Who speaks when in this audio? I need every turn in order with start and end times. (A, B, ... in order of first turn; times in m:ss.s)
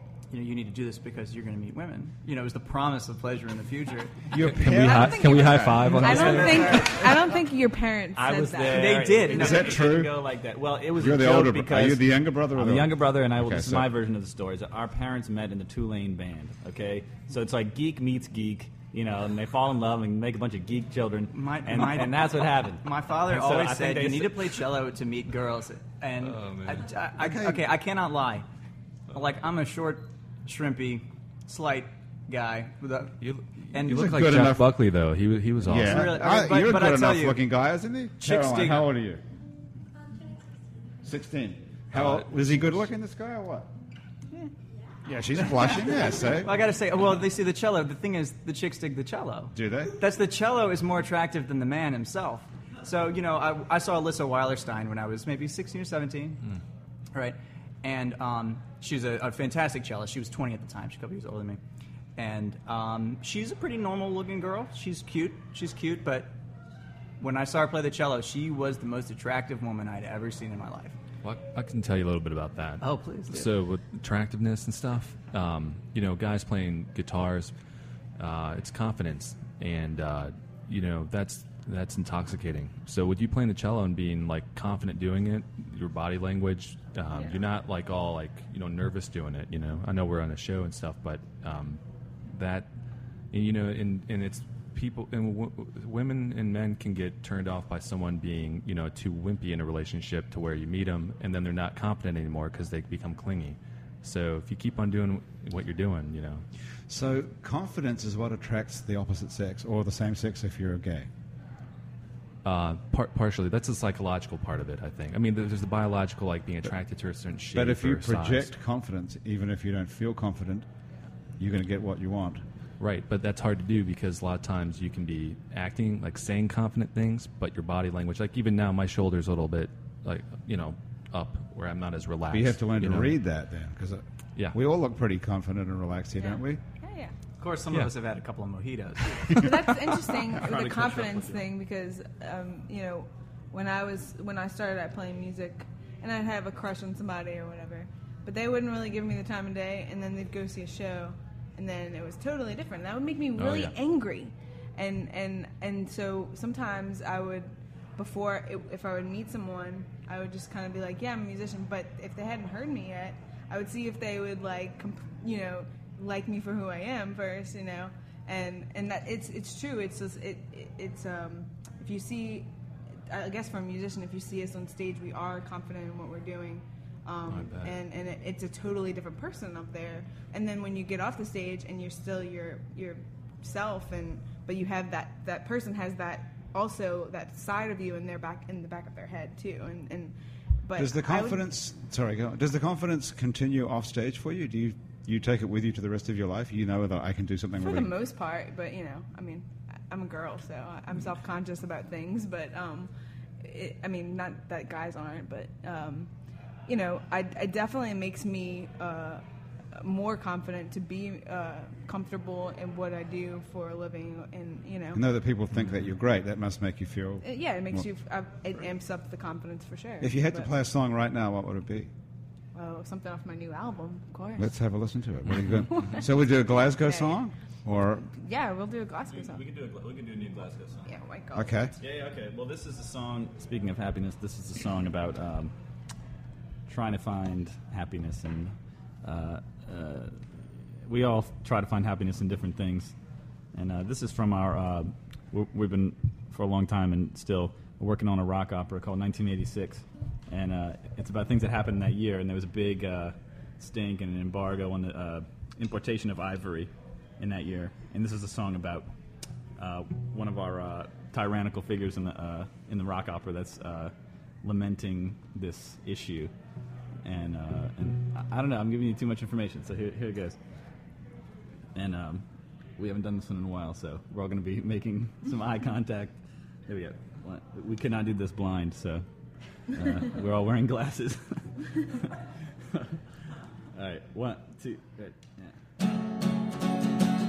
0:00.3-0:04.3 A
0:04.3-0:06.4 B
0:04.4-0:07.0 C
0:04.7-0:09.0 D
0:06.0-0:07.3 E
0:08.1-0:24.7 E
0:08.7-0:09.8 A
0:09.3-0:10.2 B
0:11.0-0:13.9 B
0:21.3-0:28.4 A
0:26.2-0:26.9 C
0:27.2-0:27.6 B
0:29.1-0:33.1 A
0:33.2-0:36.1 C
0:33.7-0:34.2 A
0:33.9-0:34.8 B
0:35.6-0:39.2 B
0:35.7-0:37.4 A
0:38.2-0:38.9 A
0:41.0-0:43.7 B
0:41.9-0:42.3 C
0:45.0-0:46.6 B
0:45.8-0:56.4 A
0:49.5-0:50.0 B
0:57.1-1:01.6 A
1:02.2-1:06.3 A
1:07.2-1:11.0 A
1:11.2-1:17.5 C
1:12.8-1:13.5 A
1:18.2-1:32.7 C
1:27.1-1:27.4 D
1:33.3-1:46.4 C
1:46.9-1:51.1 B
1:52.4-1:58.5 C
1:57.5-2:00.7 B
2:01.4-2:02.4 B
2:02.8-2:13.2 C
2:12.3-2:16.6 B
2:16.2-2:17.1 D
2:17.4-2:19.4 A
2:19.3-2:52.5 D
2:33.4-2:33.7 C
2:53.1-3:11.4 D
2:57.3-2:57.8 C
3:10.8-3:18.0 B
3:17.6-3:26.1 D
3:26.7-3:29.2 D
3:29.7-3:35.0 D
3:34.9-3:37.8 B
3:37.2-3:40.5 D
3:40.0-3:41.9 B
3:42.6-3:44.5 D
3:44.4-3:48.0 B
3:45.7-3:47.2 D
3:47.9-3:49.4 D
3:49.1-3:50.9 E
3:50.9-3:51.7 D
3:51.4-3:51.7 B
3:51.8-3:55.5 E
3:56.7-4:00.2 E
4:00.8-4:03.0 E
4:03.5-4:18.9 E
4:19.6-4:26.3 E
4:27.0-4:30.4 E
4:31.7-4:32.2 E
4:32.8-4:39.0 E
4:39.7-4:42.2 E
4:43.7-4:45.6 E